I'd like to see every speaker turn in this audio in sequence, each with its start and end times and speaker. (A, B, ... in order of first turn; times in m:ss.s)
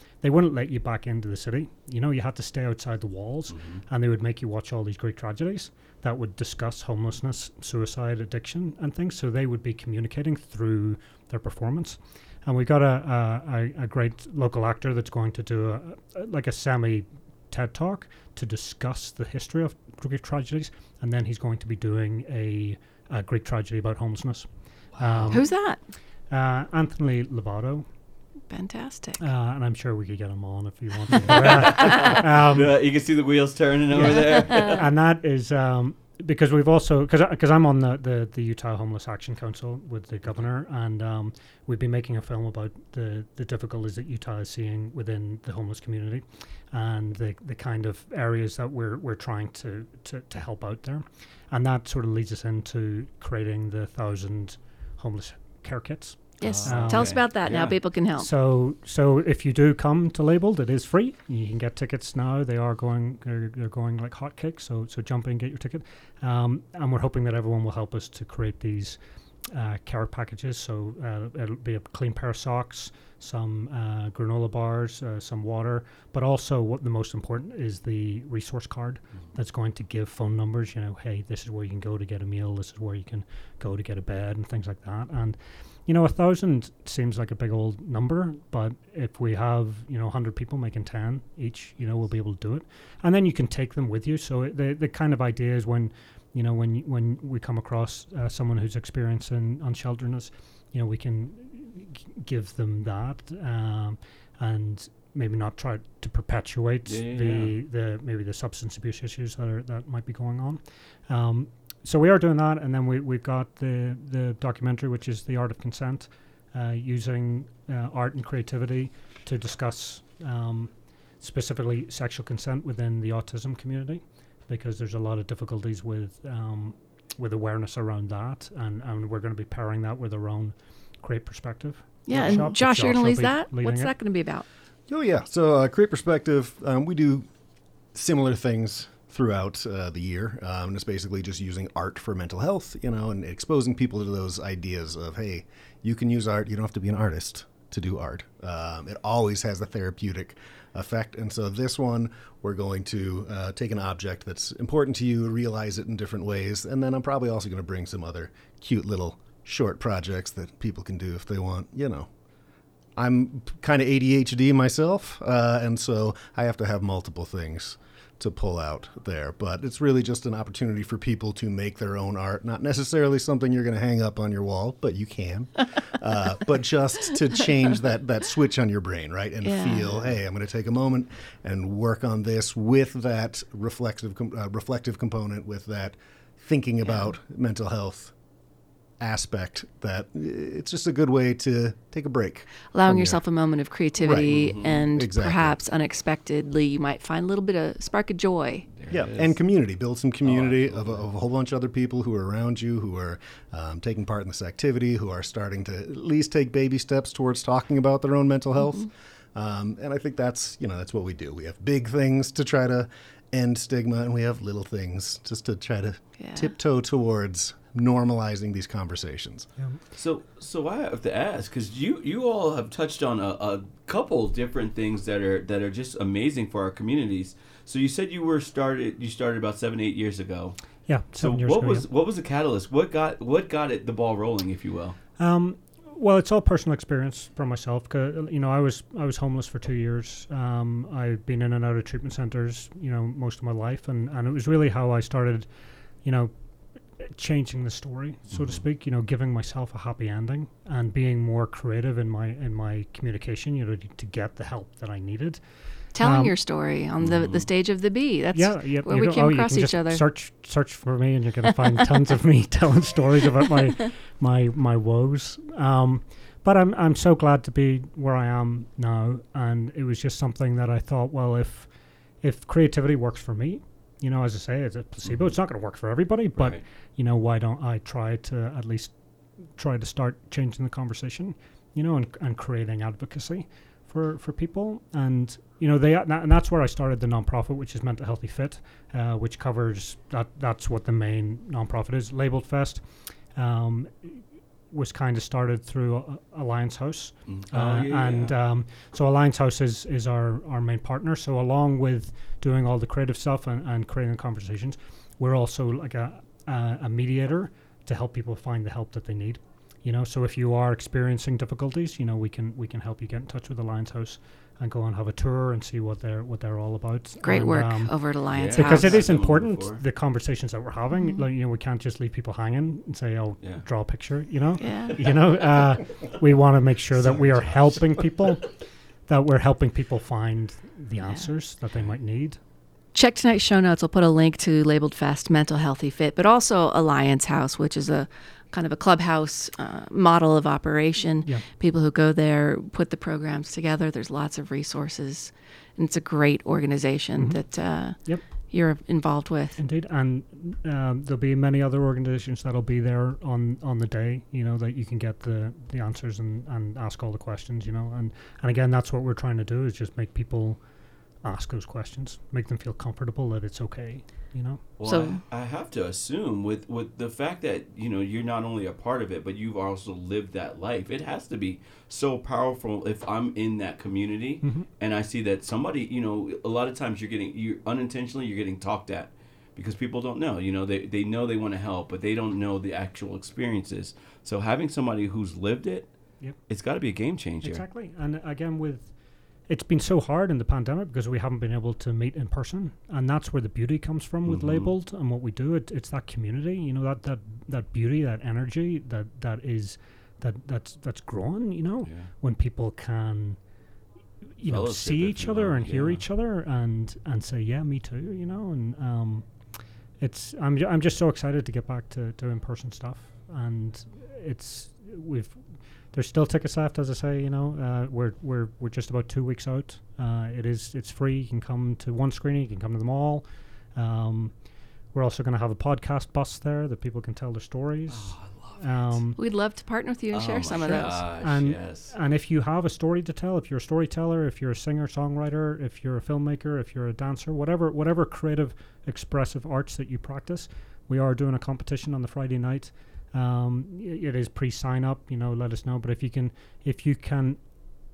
0:00.2-0:25.5 A
0:03.5-0:03.8 B
0:25.1-0:25.4 B
0:25.3-0:25.8 C
0:26.3-0:27.8 A
0:28.5-0:29.2 C
0:29.2-0:32.7 A
0:31.2-0:32.1 C
0:31.3-0:34.8 B
0:33.9-0:57.2 A
0:34.0-0:34.8 C
0:56.4-0:58.3 C
0:56.4-0:57.8 B
0:58.2-1:09.0 A
1:09.5-2:13.9 A
1:46.9-1:47.5 B
2:12.1-2:14.5 C
2:14.9-2:17.3 D
2:17.9-2:42.1 D
2:43.0-3:08.1 D
2:59.4-2:59.9 C
3:06.8-3:07.1 C
3:09.0-3:13.2 D
3:12.7-3:18.7 C
3:14.0-3:15.6 D
3:14.3-3:14.8 B
3:18.8-3:19.4 B
3:18.9-3:39.5 D
3:20.2-3:21.0 B
3:28.6-3:28.9 C
3:36.2-3:36.5 C
3:40.0-3:50.6 B
3:50.9-3:51.9 A
3:51.2-3:55.0 B
3:55.2-4:05.5 A
4:06.0-4:06.3 A
4:07.0-4:15.4 A
4:08.3-4:08.6 B
4:15.9-4:20.0 C
4:16.0-4:16.4 A
4:17.0-4:17.5 B
4:18.3-4:31.7 A
4:32.2-4:39.0 A
4:36.4-4:36.6 B
4:39.6-4:52.8 A
4:53.4-4:54.2 A
4:54.7-5:28.5 A
4:57.3-4:58.3 B
5:17.2-5:19.1 C
5:18.3-5:19.8 B
5:20.9-5:21.2 C
5:24.6-5:25.0 C
5:29.1-5:32.4 A
5:32.9-5:49.6 C
5:47.2-5:47.4 A
5:48.0-5:48.2 A
5:49.6-6:00.6 A
6:01.2-6:04.6 A
6:04.8-6:25.9 B
6:04.8-6:05.2 C
6:14.4-6:14.7 A
6:26.5-6:27.6 B
6:27.4-6:28.9 A
6:29.5-6:43.4 A
6:34.3-6:34.7 B
6:41.8-6:42.1 B
6:44.4-6:49.3 A
6:44.5-6:46.0 B
6:50.0-6:55.4 A
6:55.9-7:04.4 A
7:04.9-7:09.2 A
7:07.9-7:09.0 B
7:09.2-7:11.0 C
7:10.1-7:11.9 B
7:10.7-7:27.4 A